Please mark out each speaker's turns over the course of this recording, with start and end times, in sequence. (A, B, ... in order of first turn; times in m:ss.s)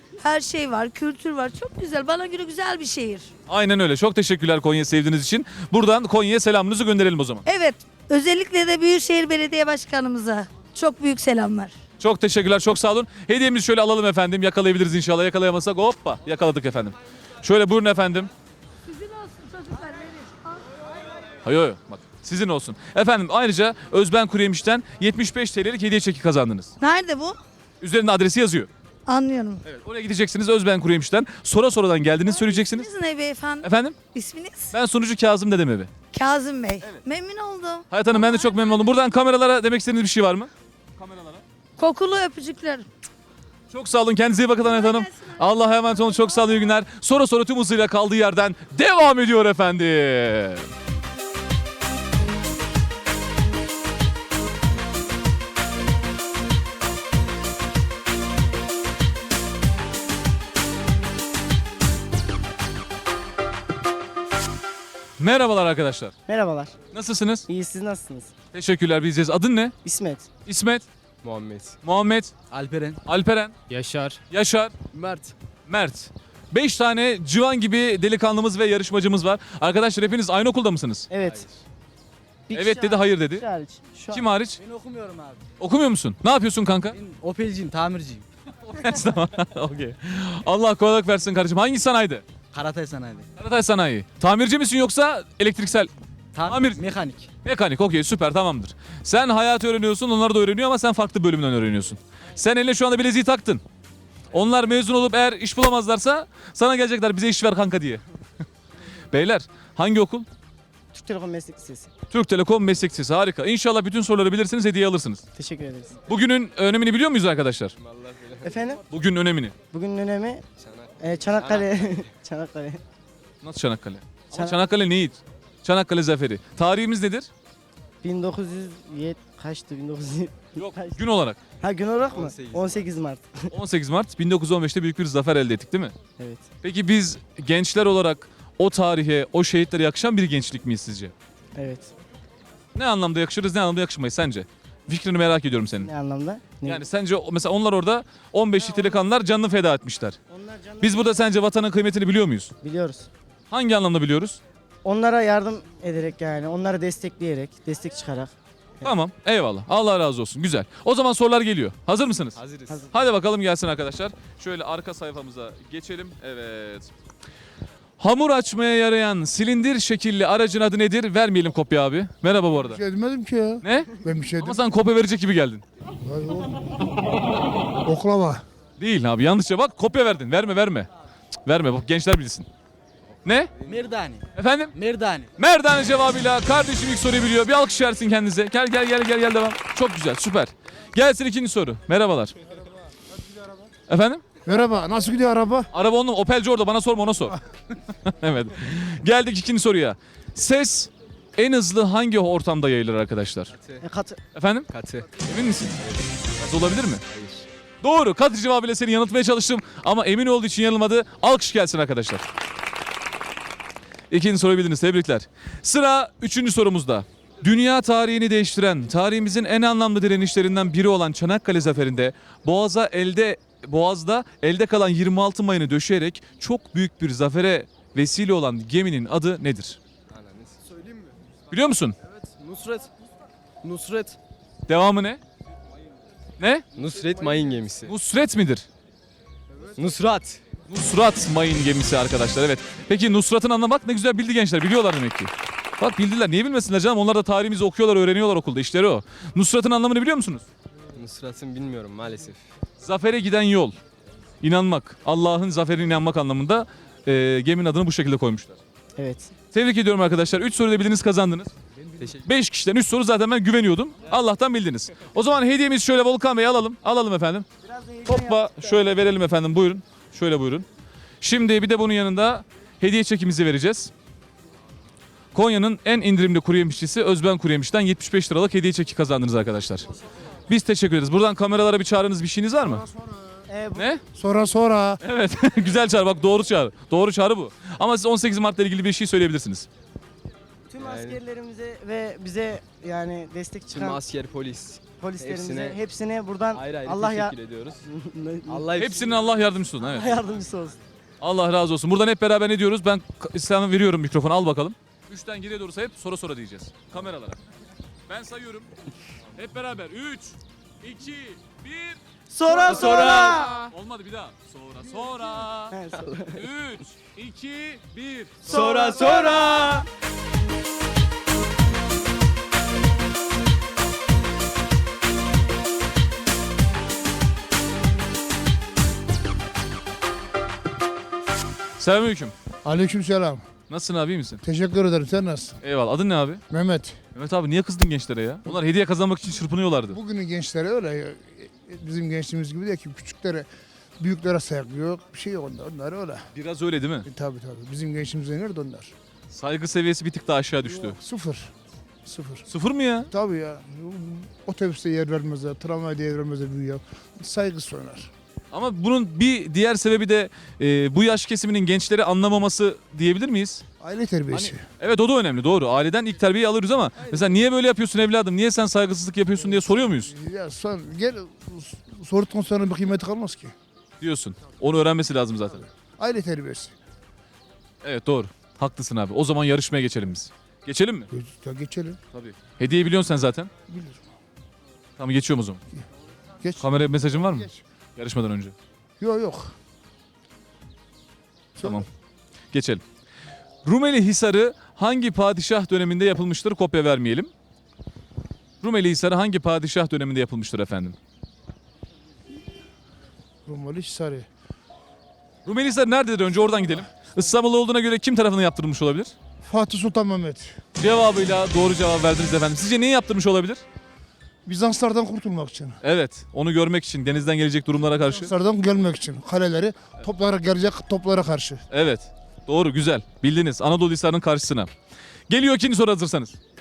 0:00.2-0:03.3 A
0:03.5-0:07.4 B
0:07.5-0:11.7 A
0:12.0-0:18.3 B
0:18.9-0:20.6 A
0:21.4-0:26.7 B
0:26.8-0:27.4 A
0:27.8-0:28.7 B
0:29.1-0:29.7 A
0:29.7-0:32.9 B
0:32.3-0:34.7 A
0:33.6-0:34.0 B
0:34.7-0:35.9 B
0:36.1-0:38.7 A
0:37.9-0:41.4 B
0:41.8-0:42.9 A
0:43.7-0:50.7 B
0:44.8-0:45.4 A
1:05.2-1:06.1 B
1:06.3-1:06.8 C
1:06.9-1:07.5 B
1:07.5-1:08.3 C
1:08.5-1:09.8 B
1:09.8-1:10.3 C
1:10.5-1:10.9 B
1:11.2-1:11.8 D
1:11.8-1:12.3 B
1:12.5-1:13.0 E
1:13.0-1:13.6 B
1:13.7-1:14.2 D
1:14.3-1:14.7 B
1:14.9-1:15.3 D
1:15.7-1:21.1 B
1:21.1-1:21.5 C
1:21.2-1:21.6 D
1:22.5-1:24.2 C
1:22.5-1:23.5 B
1:24.1-1:24.6 B
1:24.6-1:25.4 E
1:25.6-1:27.0 B
1:26.9-1:28.2 E
1:28.6-1:32.3 B
1:32.5-1:33.3 E
1:33.4-1:35.9 B
1:36.4-1:37.3 E
1:36.4-1:36.8 B
1:37.4-1:43.6 B
1:44.3-1:48.0 B
1:49.1-1:50.3 B
1:50.9-1:51.9 C
1:52.1-1:55.2 B
1:55.4-1:56.0 C
1:56.1-1:57.7 B
1:57.8-1:58.8 D
1:58.4-1:58.8 C
1:58.9-1:59.6 B
1:59.7-2:00.5 C
2:00.6-2:02.1 D
2:01.0-2:02.8 C
2:03.4-2:07.3 B
2:04.3-2:04.6 C
2:08.0-2:11.0 C
2:10.6-2:11.4 B
2:11.6-2:13.5 C
2:12.0-2:12.9 D
2:13.5-2:16.0 B
2:16.2-2:16.5 C
2:16.6-2:21.1 B
2:21.6-2:21.9 C
2:22.8-2:25.9 B
2:25.8-2:26.8 C
2:26.6-2:30.2 B
2:28.7-2:29.0 C
2:30.3-2:31.2 C
2:30.8-2:32.5 B
2:32.6-2:33.1 C
2:33.5-2:34.4 B
2:34.8-2:38.9 C
2:38.8-2:42.4 B
2:42.9-2:46.9 B
2:48.0-2:52.8 B
2:52.6-2:54.6 F
2:53.6-2:55.6 B
2:56.0-2:56.6 F
2:57.8-2:58.4 F
2:58.8-3:00.9 B
3:01.5-3:02.5 B
3:03.2-3:03.5 B
3:03.6-3:05.3 E
3:04.4-3:04.8 B
3:05.4-3:12.4 B
3:12.9-3:13.4 F
3:13.9-3:14.2 B
3:14.4-3:15.7 F
3:15.7-3:17.4 B
3:18.0-3:23.5 B
3:23.5-3:23.8 D
3:23.8-3:24.2 C
3:24.4-3:25.8 B
3:24.7-3:25.1 D
3:25.8-3:26.1 D
3:26.4-3:27.0 B
3:27.1-3:27.5 D
3:27.8-3:32.2 B
3:34.1-3:49.8 B
3:50.1-3:50.9 D
3:51.5-3:52.0 B
3:52.4-3:52.9 D
3:53.6-3:54.2 D
3:54.7-3:55.2 B
3:56.4-3:56.7 B
3:56.8-3:57.9 D
3:57.9-3:58.7 B
3:59.6-4:00.4 D
4:00.7-4:10.5 B
4:10.9-4:12.4 D
4:12.8-4:13.8 B
4:14.4-4:18.6 B
4:19.0-4:19.3 C
4:19.5-4:21.5 B
4:22.0-4:22.2 D
4:22.2-4:27.5 B
4:27.7-4:28.7 C
4:28.0-4:30.7 B
4:31.2-4:33.9 B
4:35.3-4:39.9 B
4:40.5-4:42.8 B
4:42.6-4:43.5 F
4:43.5-4:43.9 C
4:43.8-4:44.0 B
4:44.2-4:45.0 F
4:45.0-4:49.7 B
4:50.7-4:54.0 C
4:50.8-4:51.2 D
4:53.7-4:55.8 D
4:55.0-4:58.7 C
4:56.5-4:57.8 D
4:58.5-4:59.3 D
4:58.8-5:00.2 B
4:59.9-5:00.8 C
5:01.2-5:07.4 B
5:08.1-5:08.7 B
5:09.4-5:15.8 B
5:12.4-5:13.3 C
5:12.7-5:13.7 E
5:15.7-5:16.4 C
5:16.3-5:18.8 B
5:18.5-5:19.8 E
5:31.8-5:32.3 B
5:32.6-5:33.5 F
5:33.7-5:34.4 B
5:34.4-5:35.6 F
5:35.6-5:36.4 B
5:36.5-5:37.0 F
5:37.1-5:40.0 B
5:39.9-5:43.5 F
5:44.0-5:46.2 F
5:46.3-5:47.1 B
5:47.0-5:48.9 F
5:49.3-5:51.0 B
5:50.7-5:51.5 F
5:52.0-5:52.5 F
5:52.5-5:53.1 B
5:53.1-5:58.1 F
5:58.5-6:03.6 B
6:03.8-6:04.6 F
6:04.3-6:10.1 B
6:07.1-6:07.4 F
6:09.4-6:13.6 F
6:14.0-6:15.7 B
6:15.8-6:16.8 F
6:17.8-6:21.1 B
6:21.1-6:22.0 F
6:22.1-6:23.5 B
6:23.7-6:24.0 F
6:25.0-6:25.6 B
6:26.4-6:27.6 F
6:26.6-6:28.5 B
6:29.0-6:29.5 F
6:31.6-6:31.9 F
6:31.6-6:31.9 B
6:32.5-6:32.8 B
6:33.6-6:37.3 B
6:38.6-6:41.0 B
6:43.4-6:44.3 F
6:45.4-6:49.1 B
6:49.4-6:50.6 F
6:50.8-6:53.6 B
6:54.4-6:55.8 F
6:55.8-6:58.3 B
6:58.0-7:01.6 F
7:01.7-7:04.7 B
7:05.3-7:06.4 B